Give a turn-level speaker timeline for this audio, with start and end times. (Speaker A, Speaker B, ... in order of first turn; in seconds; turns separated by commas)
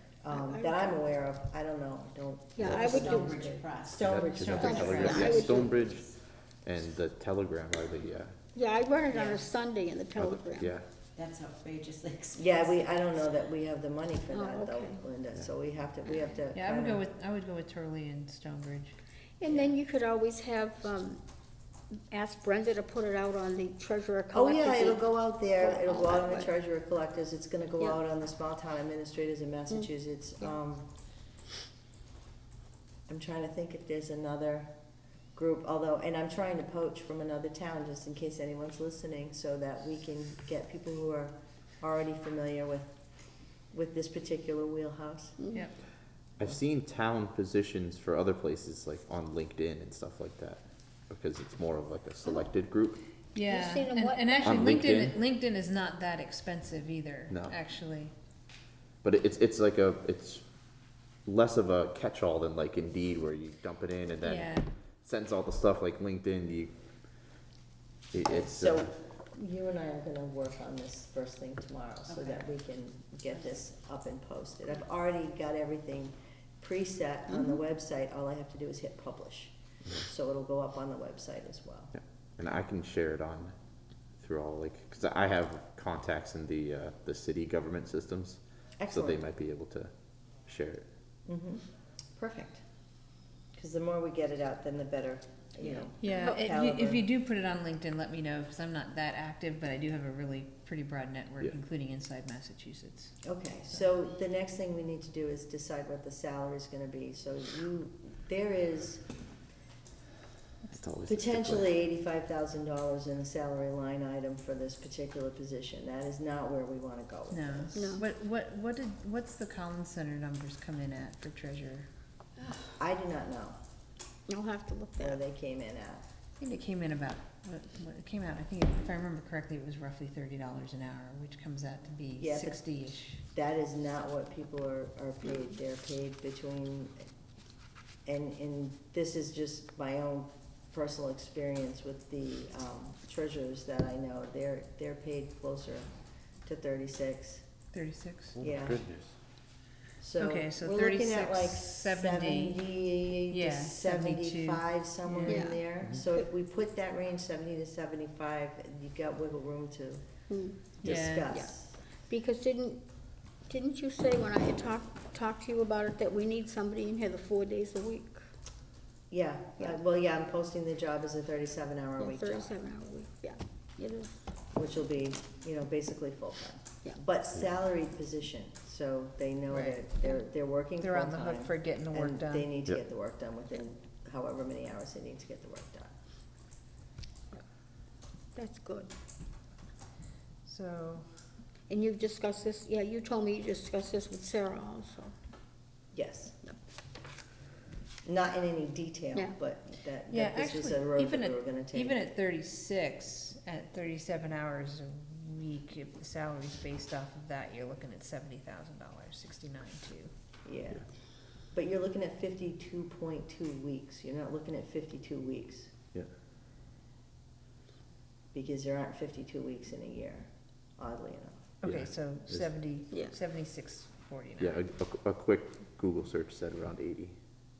Speaker A: 0.2-6.0, Speaker B: 0.3-1.0, Speaker B: 2.6-3.6, Speaker C: 2.7-5.8, Speaker D: 4.0-6.1, Speaker E: 4.4-5.3, Speaker B: 4.6-5.7, Speaker D: 6.7-8.3, Speaker B: 8.6-10.7, Speaker A: 9.1-9.4, Speaker D: 10.2-10.8, Speaker C: 11.2-12.7, Speaker A: 12.3-17.0, Speaker B: 14.3-15.0, Speaker E: 16.5-18.9, Speaker B: 19.4-21.2, Speaker A: 19.5-19.7, Speaker B: 21.9-26.5, Speaker A: 24.3-30.9, Speaker A: 33.1-34.7, Speaker A: 35.4-43.0, Speaker A: 43.7-45.4, Speaker B: 45.4-45.7, Speaker D: 46.4-53.0, Speaker E: 53.3-58.1, Speaker B: 53.5-54.6, Speaker D: 54.4-55.2, Speaker D: 57.3-57.6, Speaker D: 59.0-60.5, Speaker D: 61.3-66.7, Speaker E: 64.2-64.7, Speaker D: 68.1-68.9, Speaker A: 68.2-81.9, Speaker B: 77.3-77.6, Speaker D: 82.4-83.5, Speaker D: 84.2-89.9, Speaker A: 88.8-89.2, Speaker D: 90.5-90.9, Speaker A: 91.3-91.6, Speaker A: 92.2-92.6, Speaker A: 93.5-97.1, Speaker E: 96.0-103.2, Speaker B: 96.1-96.4, Speaker A: 103.2-109.0, Speaker D: 110.7-111.7, Speaker A: 111.1-118.0, Speaker E: 117.3-121.9, Speaker B: 117.8-118.0, Speaker A: 122.8-123.6, Speaker B: 124.3-125.2, Speaker A: 125.0-126.0, Speaker E: 126.4-133.2, Speaker A: 132.2-132.7, Speaker A: 133.3-137.1, Speaker A: 138.1-145.9, Speaker A: 146.4-147.4, Speaker E: 147.7-148.4, Speaker D: 148.4-149.1, Speaker A: 148.4-148.8, Speaker A: 150.0-160.1, Speaker E: 150.2-152.7, Speaker E: 153.3-155.5, Speaker B: 155.3-155.6, Speaker B: 160.3-160.8, Speaker E: 160.8-161.3, Speaker A: 160.8-161.8, Speaker B: 162.1-162.8, Speaker B: 163.5-168.2, Speaker A: 169.1-172.5, Speaker B: 172.0-174.2, Speaker A: 174.5-185.9, Speaker E: 179.5-179.8, Speaker E: 180.8-182.5, Speaker B: 188.3-188.9, Speaker E: 190.5-191.1, Speaker B: 191.7-195.1, Speaker A: 195.9-196.4, Speaker A: 198.1-202.0, Speaker E: 200.1-210.1, Speaker A: 210.4-210.9, Speaker A: 211.5-215.7, Speaker A: 218.3-221.4, Speaker E: 221.6-224.6, Speaker D: 221.7-222.5, Speaker B: 222.9-223.2, Speaker D: 224.4-227.2